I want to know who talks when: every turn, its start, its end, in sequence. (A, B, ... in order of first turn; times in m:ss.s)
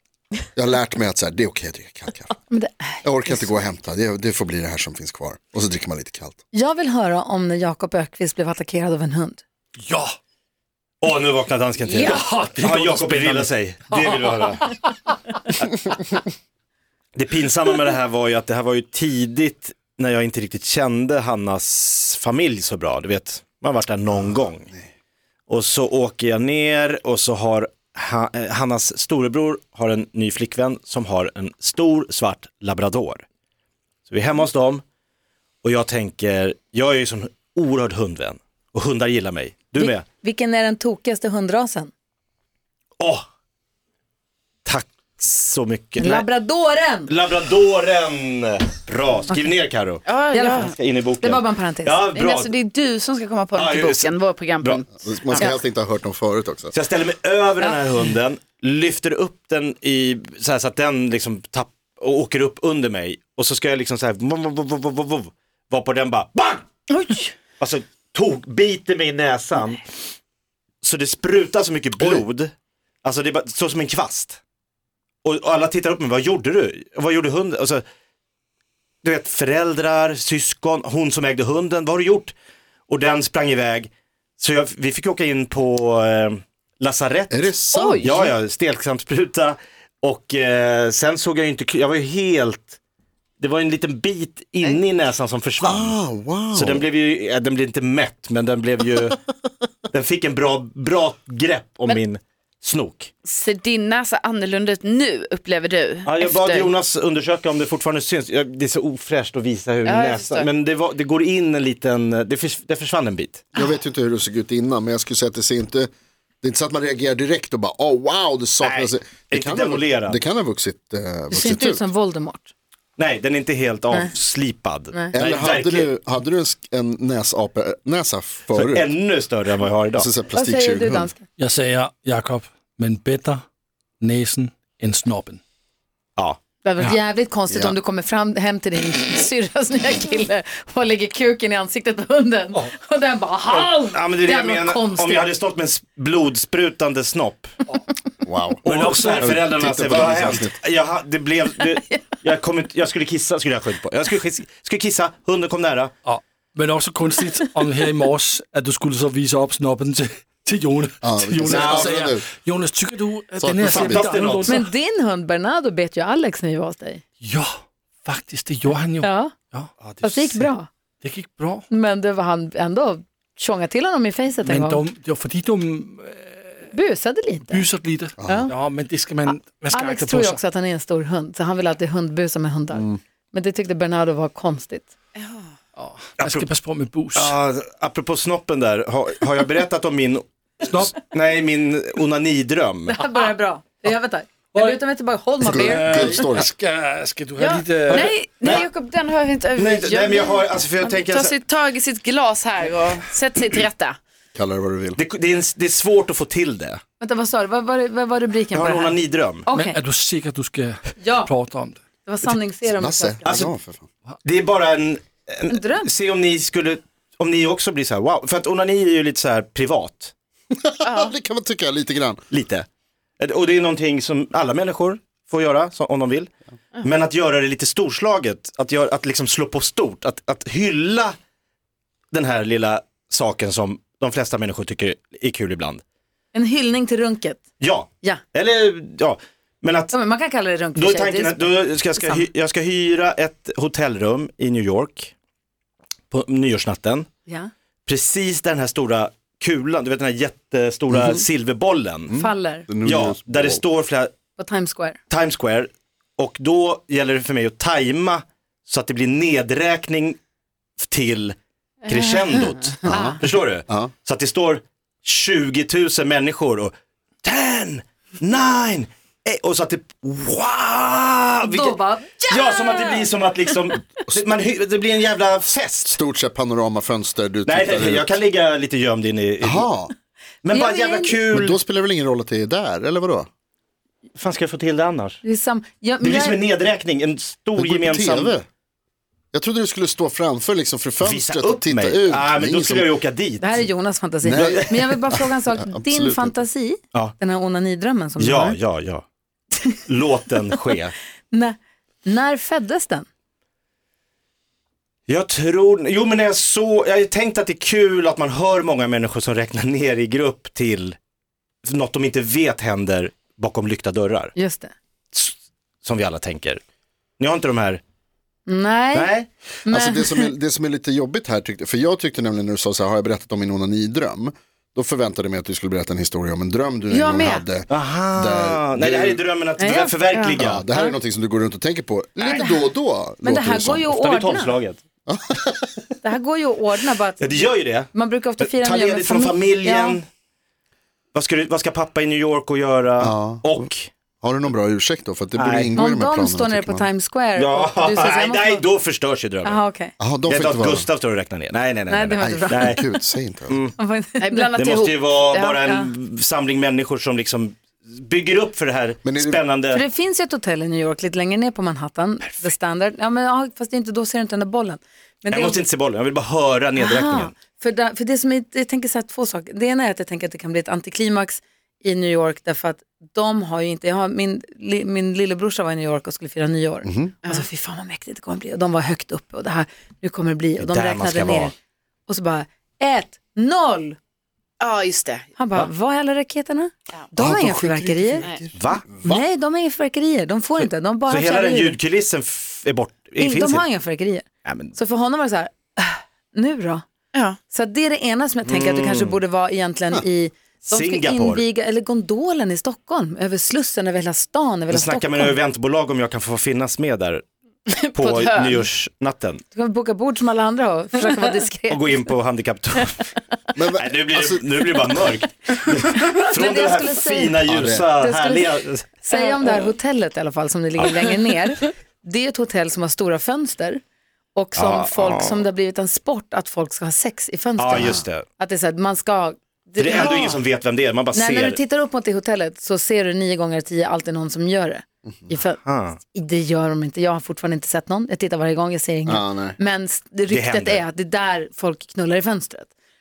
0:00.6-0:02.4 A
0:02.5-0:03.5 B
0:03.0-0:06.4 A
0:06.5-0:09.4 B
0:09.8-0:10.1 C
0:11.0-0:14.7 D
0:11.9-0:14.1 C
0:17.2-0:24.7 D
0:25.5-0:33.2 D
0:34.1-0:34.8 D
0:35.6-0:40.0 D
0:39.8-0:41.9 B
0:43.0-0:43.3 D
0:44.6-0:46.3 D
0:46.0-0:47.1 B
0:47.1-0:52.5 D
0:50.0-0:50.7 E
0:50.3-0:52.0 B
0:52.1-0:55.5 E
0:53.6-0:54.8 D
0:54.9-0:56.7 A
0:56.7-1:06.7 D
1:07.6-1:09.8 D
1:10.8-1:12.5 D
1:13.0-1:14.4 D
1:15.2-1:17.8 D
1:19.0-1:22.3 D
1:22.9-1:32.8 D
1:27.3-1:28.3 A
1:27.7-1:28.3 E
1:33.4-1:36.0 D
1:35.6-1:36.9 A
1:36.5-1:39.2 D
1:39.9-1:43.1 D
1:43.2-1:46.7 E
1:46.0-1:53.4 D
1:49.8-1:50.5 E
1:53.6-1:55.9 A
1:56.4-2:01.8 A
1:58.6-2:00.2 D
2:01.3-2:02.5 B
2:03.0-2:05.9 D
2:05.1-2:08.9 A
2:08.5-2:10.1 D
2:09.9-2:11.1 A
2:10.3-2:11.2 B
2:11.4-2:13.4 C
2:14.0-2:15.4 C
2:16.6-2:25.3 B
2:17.5-2:17.8 A
2:23.5-2:27.6 D
2:28.2-2:28.6 A
2:28.6-2:29.5 C
2:28.6-2:35.9 D
2:29.2-2:30.6 A
2:36.0-2:44.7 C
2:41.0-2:42.2 A
2:41.5-2:42.0 D
2:43.4-2:44.0 A
2:43.6-2:44.6 D
2:44.5-2:47.0 B
2:47.2-2:47.5 C
2:48.0-2:50.5 C
2:49.0-2:49.3 B
2:50.0-2:50.7 B
2:51.0-2:51.6 C
2:51.7-2:54.8 B
2:54.4-2:56.7 C
2:56.7-2:57.6 B
2:57.5-3:00.4 C
2:58.2-2:58.5 A
2:59.7-3:04.9 B
3:02.7-3:03.0 A
3:05.2-3:05.5 E
3:05.8-3:07.3 C
3:06.2-3:06.5 D
3:07.2-3:13.0 D
3:10.6-3:10.9 C
3:12.9-3:16.2 B
3:15.4-3:16.5 A
3:15.5-3:18.2 C
3:17.4-3:24.0 E
3:19.6-3:21.4 D
3:24.4-3:25.0 A
3:25.0-3:26.8 D
3:27.0-3:29.8 B
3:28.5-3:29.5 D
3:29.5-3:31.8 C
3:31.0-3:31.3 B
3:32.0-3:33.5 B
3:32.8-3:33.9 A
3:33.2-3:33.5 D
3:34.2-3:40.1 D
3:35.5-3:35.9 B
3:40.5-3:42.2 A
3:40.8-3:41.2 E
3:42.3-3:42.7 D
3:43.2-3:46.3 D
3:46.8-3:51.2 D
3:52.1-3:55.8 D
3:56.3-3:57.4 B
3:57.6-4:00.0 D
3:59.9-4:02.2 B
4:00.8-4:05.1 D
4:06.1-4:07.1 D
4:07.9-4:12.2 D
4:10.9-4:11.2 A
4:12.1-4:13.6 A
4:12.2-4:12.7 B
4:12.8-4:14.1 D
4:14.4-4:15.0 B
4:15.1-4:20.2 D
4:20.8-4:21.4 D
4:21.9-4:36.0 D
4:21.9-4:22.4 E
4:22.8-4:23.9 A
4:22.9-4:23.2 B
4:31.4-4:33.1 B
4:35.9-4:38.2 A
4:37.5-4:39.7 D
4:39.4-4:39.9 A
4:40.4-4:41.6 D
4:40.5-4:41.2 B
4:41.3-4:43.3 A
4:44.2-4:45.2 D
4:45.2-4:46.4 B
4:46.0-4:48.4 D
4:47.6-4:48.5 A
4:49.3-4:52.9 A
4:51.0-4:53.6 D
4:53.4-4:58.6 B
4:54.2-4:56.4 A
4:54.3-4:54.8 D
4:58.2-4:59.0 D
4:59.9-5:00.9 D
5:01.3-5:03.1 B
5:05.1-5:11.0 D
5:11.6-5:14.4 D
5:14.4-5:14.7 B
5:15.1-5:16.6 D
5:17.2-5:17.8 D
5:18.5-5:19.1 B
5:18.9-5:19.3 D
5:19.6-5:20.3 B
5:19.7-5:29.2 A
5:26.9-5:27.4 E
5:27.7-5:30.6 D
5:29.6-5:30.0 B
5:30.4-5:33.9 A
5:30.7-5:31.0 B
5:32.2-5:32.4 D
5:32.4-5:32.7 B
5:33.2-5:34.6 B
5:33.9-5:34.8 D
5:35.1-5:35.7 A
5:36.0-5:40.0 B
5:37.2-5:40.1 D
5:41.1-5:43.9 D
5:43.0-5:46.9 A
5:45.4-5:45.8 D
5:45.8-5:48.7 B
5:47.4-5:49.6 D
5:49.4-5:50.0 B
5:50.0-5:50.9 A
5:50.3-5:52.9 D
5:51.9-5:53.0 B
5:52.2-5:53.6 A
5:53.5-5:53.8 D
5:53.8-5:54.5 B
5:54.2-5:55.6 E
5:54.6-5:59.8 D
5:59.0-5:59.4 A
5:59.7-6:05.6 B
6:05.3-6:07.3 D
6:06.8-6:21.5 B
6:16.8-6:17.1 A
6:20.6-6:21.5 D
6:22.1-6:24.0 B
6:24.6-6:25.3 E
6:25.4-6:28.3 B
6:27.2-6:29.2 A
6:28.6-6:29.2 D
6:29.0-6:31.8 B
6:30.6-6:33.7 D
6:33.2-6:36.8 B
6:34.4-6:34.8 D
6:37.1-6:37.4 E
6:37.5-6:45.4 B
6:38.5-6:39.2 D
6:40.7-6:41.4 D
6:44.7-6:47.2 D
6:47.7-6:48.7 E
6:47.9-6:49.4 D
6:49.5-6:51.9 B
6:51.7-6:53.1 D
6:53.6-6:54.4 A
6:53.8-6:58.9 D
6:56.2-7:03.8 B
6:57.5-6:57.8 A
7:04.4-7:10.4 B
7:04.6-7:05.4 D
7:07.6-7:08.3 D
7:07.8-7:08.0 A
7:09.8-7:11.6 D
7:11.1-7:22.7 B
7:15.1-7:15.3 A
7:15.6-7:16.0 D
7:19.1-7:19.6 A
7:20.3-7:20.8 D